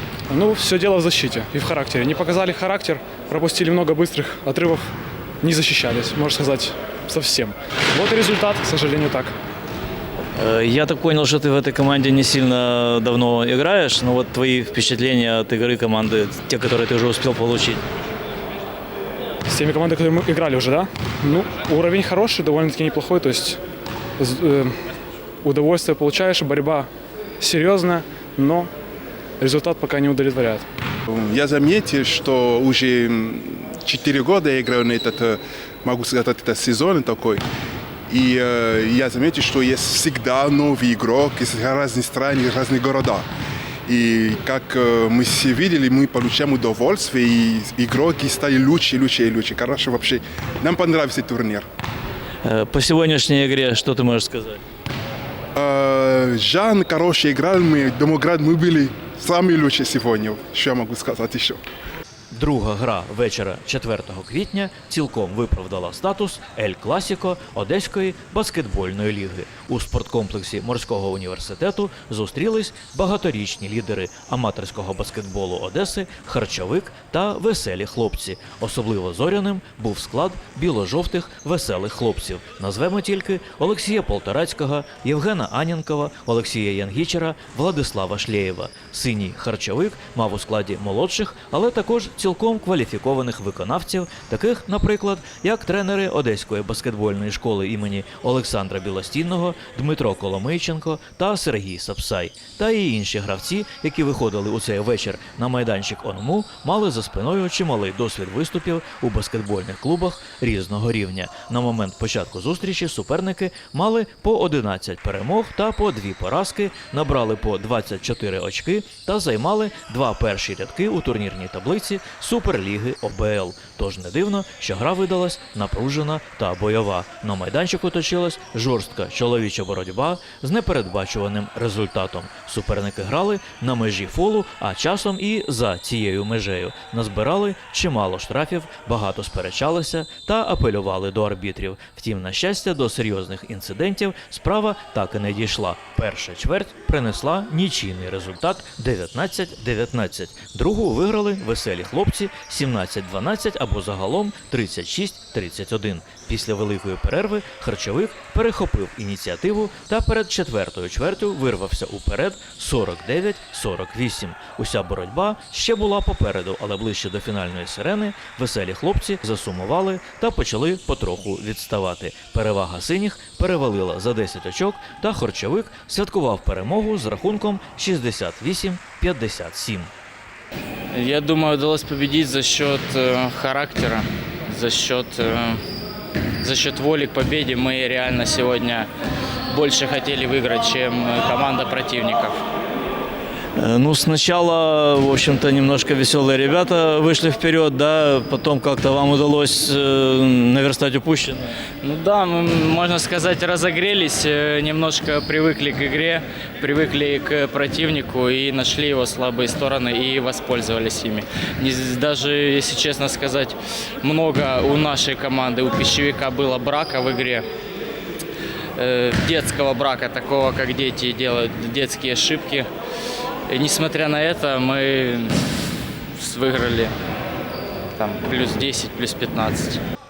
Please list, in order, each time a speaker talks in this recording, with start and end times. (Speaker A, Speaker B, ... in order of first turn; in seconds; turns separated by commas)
Speaker A: 0.3-4.9, Speaker A: 5.4-9.3, Speaker B: 10.4-17.8, Speaker A: 19.5-23.6, Speaker A: 24.2-24.8, Speaker A: 25.4-26.9, Speaker A: 27.4-28.7, Speaker A: 29.4-30.7, Speaker C: 31.1-37.4, Speaker C: 38.1-43.3, Speaker C: 43.9-51.6, Speaker B: 52.5-54.6, Speaker C: 55.5-61.6, Speaker D: 62.3-179.9, Speaker E: 180.9-185.6, Speaker E: 186.4-188.9, Speaker E: 189.5-192.4, Speaker B: 193.6-201.5, Speaker E: 201.8-217.5, Speaker E: 218.8-222.7, Speaker E: 223.5-225.4, Speaker E: 226.2-226.9, Speaker E: 228.0-229.8